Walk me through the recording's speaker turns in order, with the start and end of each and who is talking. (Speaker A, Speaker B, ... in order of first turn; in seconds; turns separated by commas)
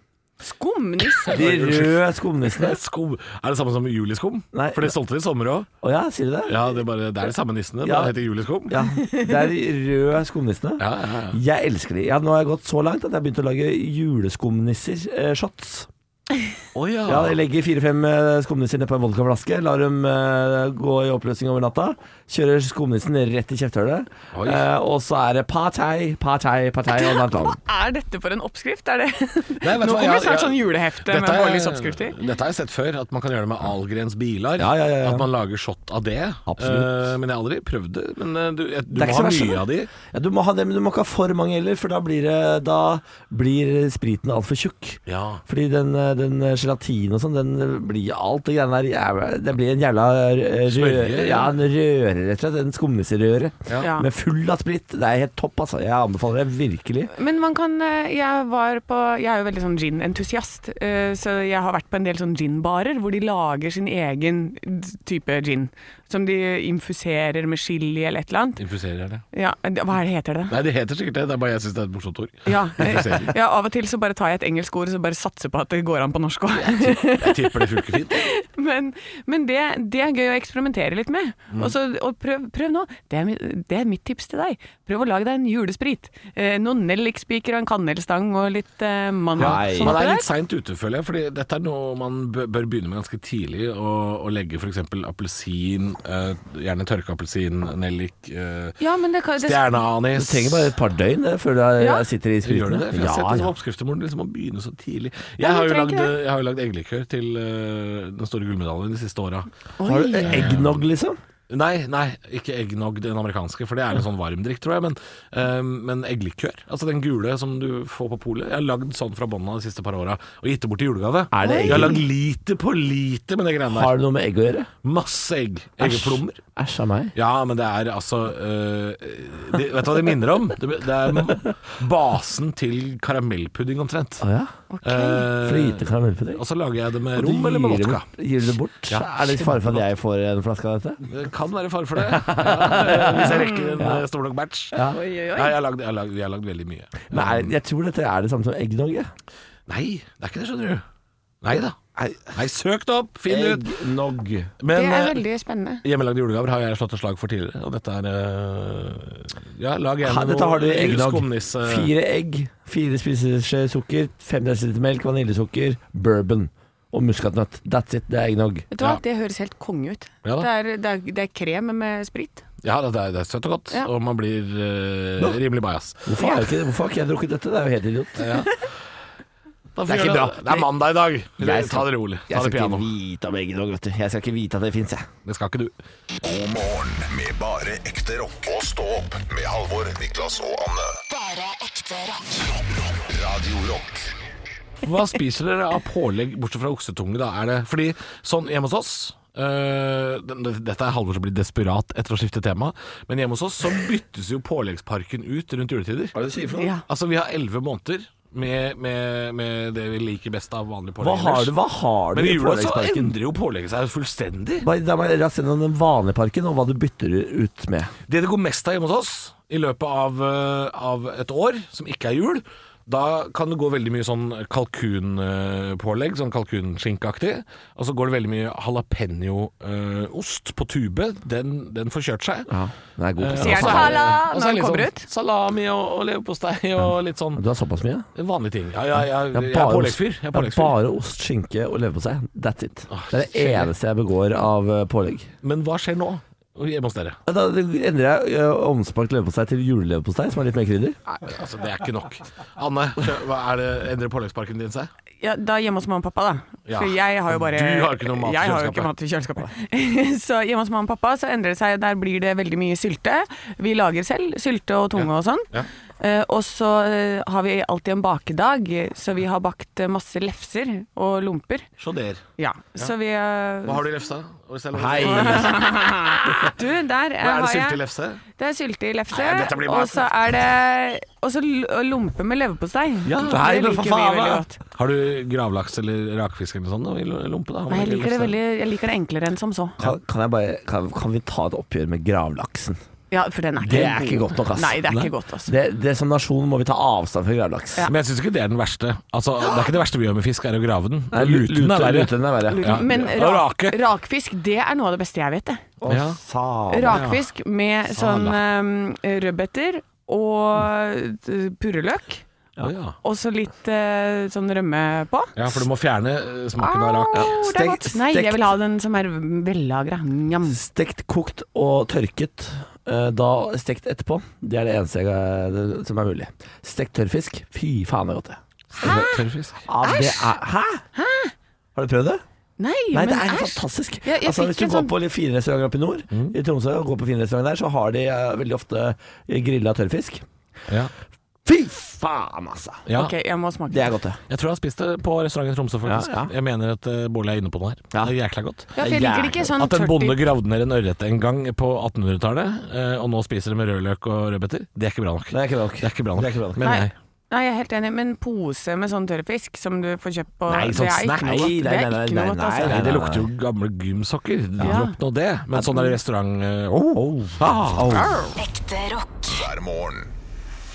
Speaker A: 0.4-1.6, Speaker B: 1.3-2.8, Speaker C: 1.3-2.0, Speaker C: 2.5-5.7, Speaker B: 4.5-4.9, Speaker B: 5.8-6.6, Speaker C: 6.5-8.8, Speaker B: 7.8-8.1, Speaker B: 8.7-15.9, Speaker A: 8.9-9.3, Speaker C: 10.8-11.4, Speaker C: 16.7-17.4, Speaker B: 17.1-27.6, Speaker C: 24.3-24.6, Speaker A: 26.9-32.1, Speaker C: 29.6-39.9, Speaker B: 34.6-35.3, Speaker B: 36.5-36.9, Speaker B: 38.9-57.1, Speaker C: 45.1-45.4, Speaker C: 50.7-51.5, Speaker A: 53.8-54.1, Speaker A: 57.1-68.6, Speaker C: 68.6-69.2, Speaker A: 69.3-70.5, Speaker C: 70.5-73.3, Speaker A: 72.5-90.3, Speaker C: 76.5-78.2, Speaker B: 89.4-89.9, Speaker C: 89.4-98.8, Speaker A: 98.8-99.7, Speaker C: 99.4-100.7, Speaker B: 100.1-103.5, Speaker A: 101.8-102.1, Speaker C: 102.4-109.5, Speaker A: 105.4-106.1, Speaker A: 109.8-110.4, Speaker B: 109.8-111.2, Speaker C: 110.2-110.8, Speaker C: 111.5-123.9, Speaker B: 121.3-122.0, Speaker A: 121.4-122.0, Speaker B: 123.7-124.7, Speaker C: 124.8-126.4, Speaker B: 125.8-127.1, Speaker C: 127.1-134.2, Speaker B: 134.2-134.5, Speaker A: 134.7-135.3, Speaker C: 134.8-138.1, Speaker B: 135.4-136.4, Speaker B: 137.1-141.1, Speaker C: 138.9-139.8, Speaker C: 141.1-147.5, Speaker B: 142.0-144.1, Speaker A: 143.2-143.8, Speaker B: 144.7-145.0, Speaker A: 144.8-145.6, Speaker B: 147.1-149.1, Speaker C: 149.7-150.8, Speaker C: 151.4-153.7, Speaker B: 152.0-152.3, Speaker B: 153.3-154.5, Speaker C: 154.6-155.2, Speaker A: 154.7-155.8, Speaker C: 155.8-161.9, Speaker B: 160.0-168.7, Speaker A: 168.7-172.4, Speaker C: 170.2-170.5, Speaker C: 172.6-176.0, Speaker B: 176.1-178.4, Speaker A: 176.2-176.4, Speaker C: 178.2-178.5, Speaker C: 179.8-182.9, Speaker B: 179.8-180.7, Speaker B: 181.4-185.1, Speaker C: 185.2-185.7, Speaker D: 186.2-190.9, Speaker E: 191.1-192.5, Speaker D: 192.9-194.1, Speaker C: 194.8-206.1, Speaker B: 206.1-206.7, Speaker A: 206.6-206.8, Speaker C: 206.9-211.5, Speaker B: 211.0-213.1, Speaker C: 212.1-214.7, Speaker B: 214.6-217.9, Speaker C: 218.1-232.5, Speaker B: 232.5-234.2, Speaker C: 233.2-237.4, Speaker A: 233.4-235.1, Speaker B: 237.3-238.1, Speaker C: 238.1-240.7, Speaker B: 239.3-245.3, Speaker C: 242.9-243.7, Speaker C: 245.4-247.2, Speaker B: 247.2-251.0, Speaker C: 251.1-254.9, Speaker A: 255.2-265.5, Speaker C: 256.7-258.9, Speaker C: 264.9-265.7, Speaker A: 266.0-271.7, Speaker C: 271.8-272.2, Speaker A: 272.4-273.8, Speaker C: 273.6-275.8, Speaker B: 274.7-275.6, Speaker A: 275.0-277.8, Speaker C: 277.2-278.2, Speaker A: 278.4-284.6, Speaker C: 279.1-280.1, Speaker C: 283.1-283.4, Speaker B: 283.1-284.4, Speaker C: 284.7-288.4, Speaker A: 287.7-289.8, Speaker B: 289.8-292.8, Speaker A: 293.1-295.5, Speaker B: 293.6-294.8, Speaker B: 295.5-297.9, Speaker C: 297.9-303.8, Speaker A: 299.4-299.7, Speaker B: 301.1-303.0, Speaker A: 302.4-305.6, Speaker B: 305.8-307.1, Speaker C: 305.9-306.2, Speaker A: 306.7-312.2, Speaker C: 306.9-307.2, Speaker C: 307.9-308.4, Speaker C: 312.6-312.9, Speaker A: 313.0-315.6, Speaker C: 315.4-317.4, Speaker A: 316.6-320.6, Speaker B: 317.1-318.5, Speaker B: 320.4-329.1, Speaker A: 328.8-329.2, Speaker C: 328.8-329.6, Speaker B: 329.6-330.9, Speaker A: 329.8-330.3, Speaker A: 330.9-331.3, Speaker B: 331.7-332.2, Speaker A: 332.6-334.9, Speaker B: 332.9-340.2, Speaker B: 341.4-342.8, Speaker C: 342.9-343.1, Speaker A: 342.9-343.9, Speaker B: 343.7-344.2, Speaker C: 344.3-348.7, Speaker B: 345.9-346.3, Speaker B: 348.8-349.5, Speaker A: 348.8-350.2, Speaker C: 349.5-356.9, Speaker B: 355.3-356.7, Speaker A: 356.6-362.9, Speaker C: 360.5-361.5, Speaker B: 361.2-363.3, Speaker C: 362.6-368.1, Speaker A: 364.6-364.9, Speaker B: 365.6-365.9, Speaker B: 366.9-368.2, Speaker A: 367.9-368.3, Speaker E: 368.4-369.4, Speaker D: 369.3-370.1